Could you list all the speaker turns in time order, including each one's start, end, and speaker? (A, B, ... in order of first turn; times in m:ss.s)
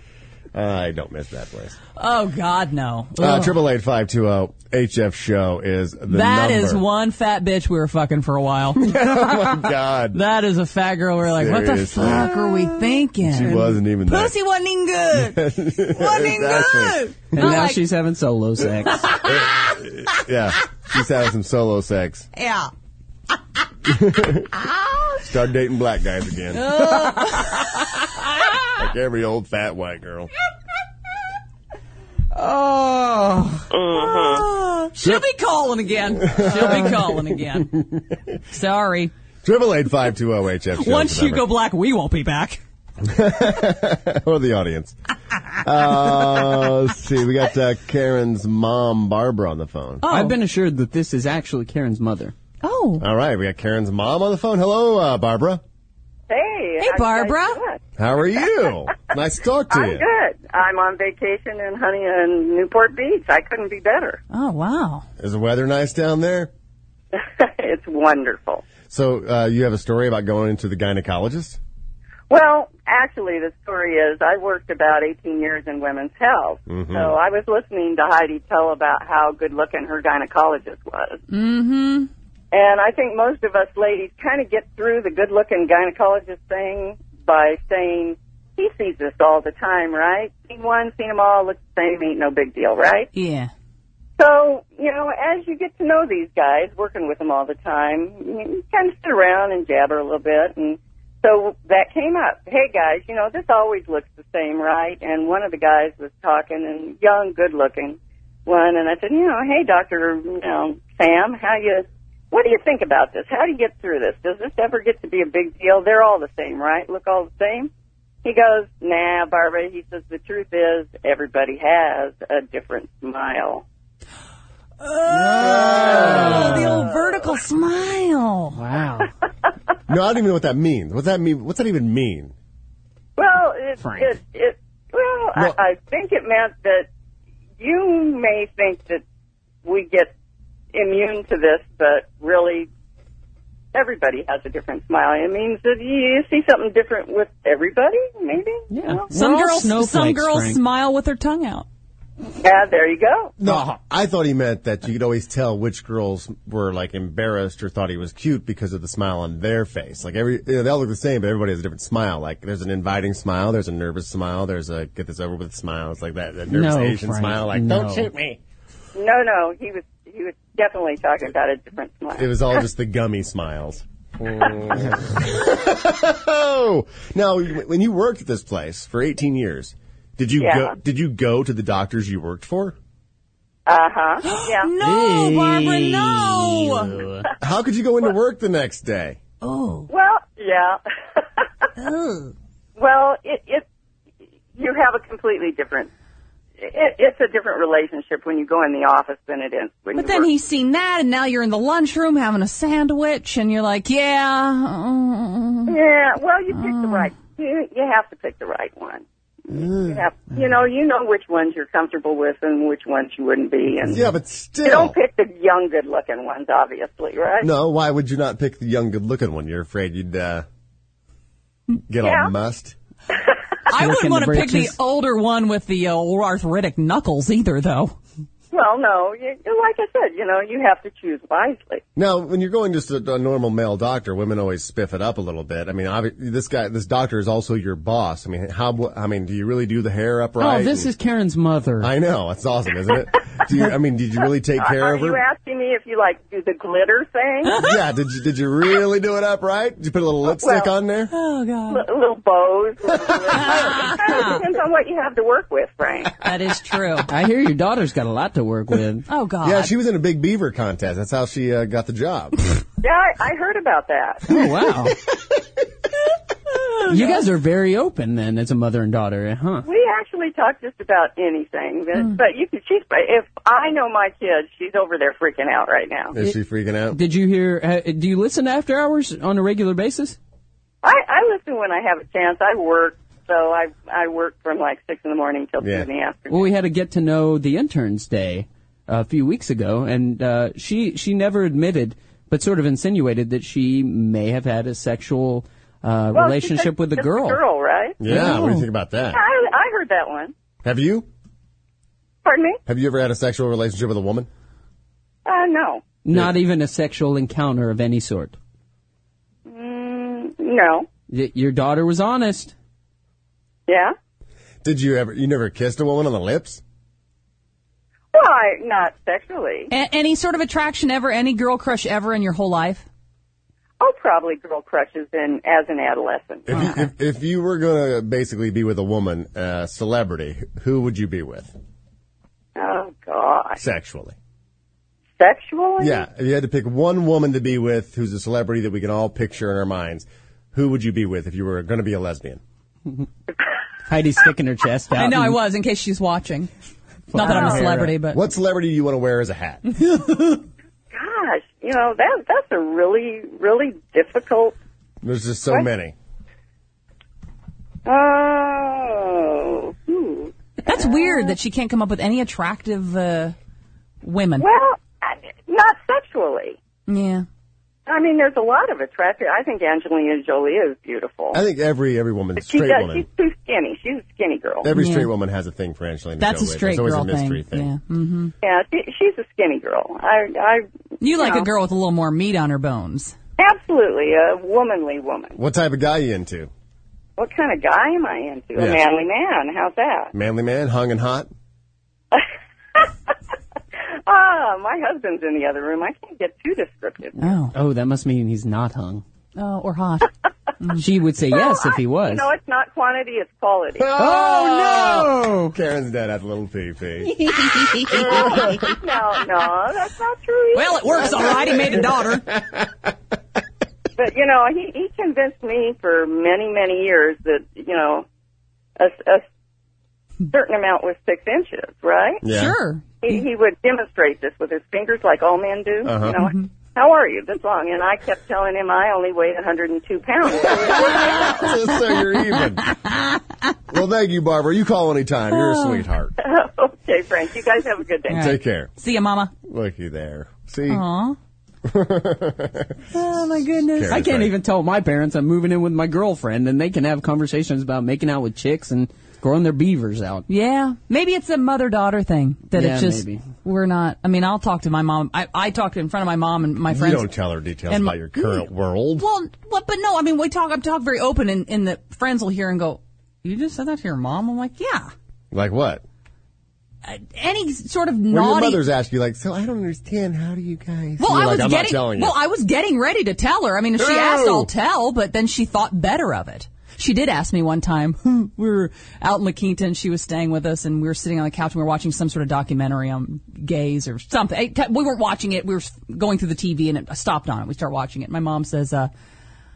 0:00.5-0:01.8 A
0:02.0-0:03.6 B
0:03.2-0:06.8 A
0:06.1-0:09.0 B
0:08.8-0:10.2 A
0:10.1-0:17.8 B
0:11.3-0:12.3 A
0:13.2-0:14.3 A
0:15.1-0:17.5 A
0:17.4-0:19.1 C
0:19.0-0:19.4 B
0:19.2-0:22.3 A
0:22.3-0:22.7 B
0:23.8-0:24.5 A
0:24.6-0:25.2 B
0:25.2-0:26.9 A
0:26.5-0:27.7 B
0:28.7-0:30.3 A
0:32.3-0:33.7 C
0:33.9-0:37.7 B
0:36.2-0:38.1 A
0:38.5-0:39.1 B
0:39.4-0:41.4 A
0:40.8-0:42.6 B
0:43.0-0:45.0 A
0:45.6-0:50.0 A
0:50.0-0:50.4 B
0:50.1-0:52.3 C
0:52.6-0:53.0 B
0:53.0-0:55.6 A
0:56.3-0:57.8 D
0:56.8-0:57.6 B
0:58.0-1:00.0 A
0:59.7-1:04.2 D
1:04.3-1:05.1 B
1:05.2-1:06.5 A
1:07.1-1:08.6 D
1:08.9-1:11.6 A
1:12.3-1:21.2 D
1:16.7-1:17.2 A
1:21.3-1:22.1 B
1:22.5-1:33.1 D
1:33.1-1:33.5 B
1:34.2-1:57.7 D
1:58.2-2:03.6 D
2:04.8-2:08.6 B
2:05.1-2:06.9 C
2:05.4-2:06.7 A
2:08.5-2:09.1 C
2:09.9-2:12.3 A
2:13.2-2:16.9 D
2:13.8-2:14.1 C
2:17.6-2:19.0 D
2:19.6-2:20.1 D
2:20.7-2:22.7 D
2:23.7-2:29.0 D
2:28.7-2:30.6 C
2:29.1-2:31.6 B
2:32.4-2:33.3 D
2:33.4-2:48.4 A
2:33.4-2:33.8 C
2:46.5-2:48.1 C
2:48.9-2:52.3 D
2:52.2-3:02.8 A
3:00.4-3:00.7 D
3:03.6-3:04.7 D
3:04.2-3:07.0 B
3:04.8-3:07.2 C
3:07.4-3:09.2 A
3:09.4-3:09.9 B
3:09.9-3:11.5 D
3:11.8-3:12.3 B
3:12.8-3:13.6 D
3:14.6-3:15.9 D
3:16.6-3:20.3 D
3:20.0-3:25.8 B
3:25.7-3:34.1 D
3:26.5-3:27.1 B
3:33.9-3:35.0 A
3:34.6-3:37.5 D
3:37.4-3:40.4 A
3:41.9-3:42.8 A
3:42.0-3:42.3 D
3:43.7-3:47.9 B
3:43.7-3:44.8 C
3:48.5-3:51.8 D
3:52.0-4:00.9 A
4:00.4-4:01.9 C
4:01.8-4:05.2 A
4:04.6-4:07.6 D
4:07.4-4:07.8 B
4:07.6-4:11.1 A
4:10.4-4:10.7 D
4:11.1-4:11.8 B
4:11.7-4:16.2 D
4:13.3-4:14.4 B
4:16.2-4:17.1 B
4:17.1-4:19.0 C
4:19.1-4:19.7 B
4:19.4-4:22.4 A
4:22.8-4:24.4 D
4:24.3-4:25.0 C
4:26.6-4:27.2 B
4:26.9-4:29.7 C
4:29.6-4:36.2 D
4:36.1-4:37.0 A
4:36.9-4:40.2 C
4:40.8-4:46.5 D
4:45.6-4:45.9 A
4:46.3-4:57.4 C
4:56.1-4:58.0 D
4:58.0-4:59.2 A
4:58.1-4:58.7 B
4:59.1-5:00.3 D
5:00.6-5:01.1 A
5:02.2-5:02.6 D
5:02.6-5:04.3 A
5:05.2-5:05.8 D
5:06.0-5:08.4 C
5:09.4-5:10.9 D
5:11.1-5:12.5 C
5:13.7-5:13.9 D
5:14.6-5:16.6 A
5:18.1-5:19.7 D
5:19.7-5:22.8 B
5:23.8-5:26.5 D
5:26.5-5:31.5 A
5:26.5-5:26.9 B
5:32.6-5:33.6 D
5:33.6-5:34.1 A
5:35.2-5:36.0 D
5:35.8-5:42.4 A
5:43.9-5:45.4 C
5:45.0-5:46.5 B
5:47.1-5:47.9 C
5:47.1-5:48.2 B
5:47.2-5:47.6 D
5:47.4-5:49.7 A
5:49.8-5:50.4 C
5:50.9-5:54.6 D
5:55.0-5:55.9 A
5:57.8-6:01.4 D
6:00.6-6:03.4 B
6:04.0-6:04.5 B
6:04.4-6:06.6 D
6:06.9-6:07.2 B
6:07.9-6:11.4 D
6:11.3-6:13.0 A
6:12.4-6:14.7 D
6:14.6-6:17.7 A
6:14.7-6:15.1 B
6:16.2-6:18.3 B
6:18.4-6:21.5 D
6:21.0-6:23.1 B
6:23.4-6:25.4 D
6:25.4-6:26.5 A
6:27.2-6:30.1 D
6:28.6-6:28.8 A
6:30.1-6:31.3 A
6:32.1-6:32.9 D
6:34.0-6:37.2 D
6:37.2-6:37.5 B
6:37.5-6:39.0 C
6:39.4-6:40.8 B
6:40.8-6:42.3 C
6:41.3-6:43.9 D
6:43.8-6:48.7 A
6:43.9-6:45.5 C
6:47.2-6:48.1 C
6:47.5-6:48.5 B
6:48.7-6:51.3 D
6:50.5-6:52.3 B
6:51.1-6:52.9 A
6:54.0-6:58.0 D
6:58.8-6:59.2 D
7:00.3-7:02.2 D
7:02.2-7:02.6 A
7:02.3-7:03.2 B
7:03.0-7:11.5 D
7:05.8-7:06.2 A
7:10.6-7:12.8 A
7:12.4-7:13.2 B
7:13.7-7:16.1 A
7:15.3-7:15.8 B
7:16.2-7:18.3 D
7:18.1-7:19.3 B
7:18.1-7:18.7 A
7:19.4-7:20.8 A
7:20.7-7:21.2 B
7:21.6-7:22.8 A
7:22.9-7:24.0 B
7:23.7-7:24.4 A
7:23.9-7:30.2 C
7:30.3-7:37.1 B
7:32.5-7:33.2 C
7:36.7-7:39.0 A
7:37.7-7:38.4 B
7:39.0-7:44.9 B
7:45.3-7:45.8 A
7:46.8-7:48.6 B
7:48.1-7:52.2 A
7:51.0-8:08.9 B
7:53.8-7:54.5 A